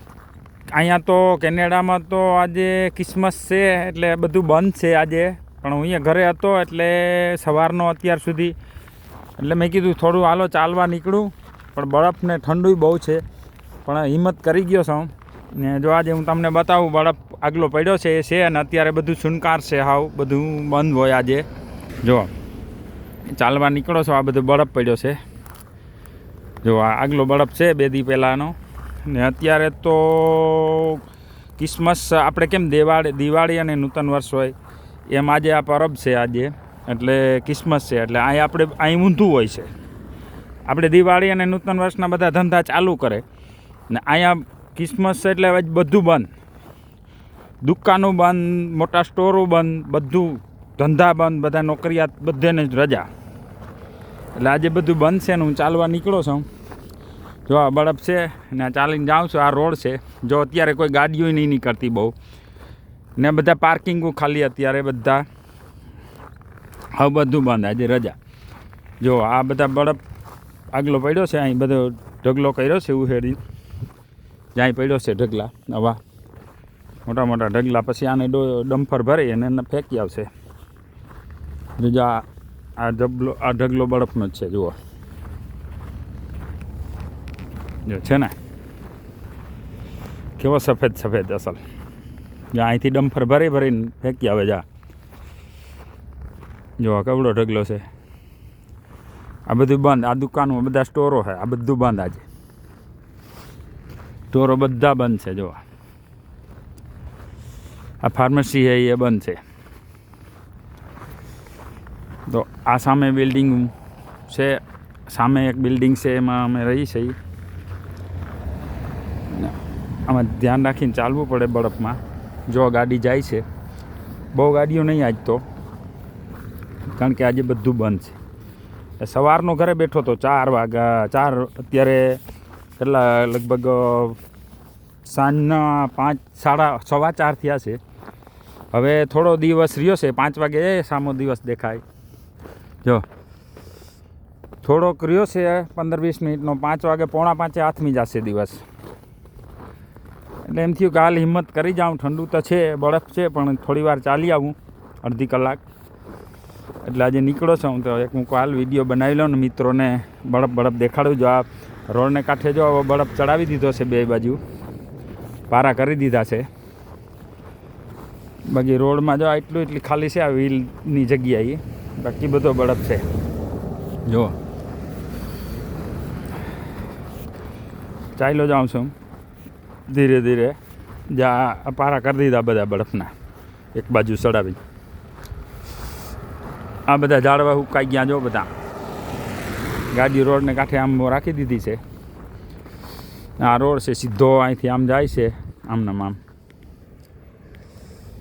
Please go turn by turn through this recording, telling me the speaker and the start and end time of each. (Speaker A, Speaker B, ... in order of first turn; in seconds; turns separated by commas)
Speaker A: 0.7-8.6, Speaker A: 9.4-13.2, Speaker A: 13.8-21.4, Speaker A: 22.0-22.3, Speaker A: 23.3-25.2, Speaker A: 26.6-31.0, Speaker A: 31.6-34.5, Speaker A: 35.1-39.7, Speaker A: 40.7-43.2, Speaker A: 43.9-46.3, Speaker A: 47.6-53.1, Speaker A: 54.4-56.5, Speaker A: 57.5-62.1, Speaker A: 63.2-65.3, Speaker A: 66.9-68.2, Speaker A: 69.0-70.0, Speaker A: 70.7-73.4, Speaker A: 74.5-76.0, Speaker A: 77.1-80.3, Speaker A: 81.8-82.2, Speaker A: 82.8-84.8, Speaker A: 87.9-88.3, Speaker A: 90.4-91.6, Speaker A: 92.5-94.6, Speaker A: 96.8-97.8, Speaker A: 99.5-102.2, Speaker A: 104.3-105.6, Speaker A: 108.0-109.4, Speaker A: 112.3-113.7, Speaker A: 114.3-117.2, Speaker A: 119.3-123.5, Speaker A: 124.3-125.4, Speaker A: 126.9-128.2, Speaker A: 129.0-132.2, Speaker A: 132.8-134.2, Speaker A: 135.1-137.8, Speaker A: 138.7-141.8, Speaker A: 144.6-148.6, Speaker A: 150.4-155.6, Speaker A: 156.8-164.4, Speaker A: 165.5-166.5, Speaker A: 168.5-173.1, Speaker A: 174.1-174.4, Speaker A: 178.2-178.9, Speaker A: 179.9-180.6, Speaker A: 181.1-183.1, Speaker A: 183.7-184.6, Speaker A: 186.9-188.5, Speaker A: 189.9-191.8, Speaker A: 193.4-196.2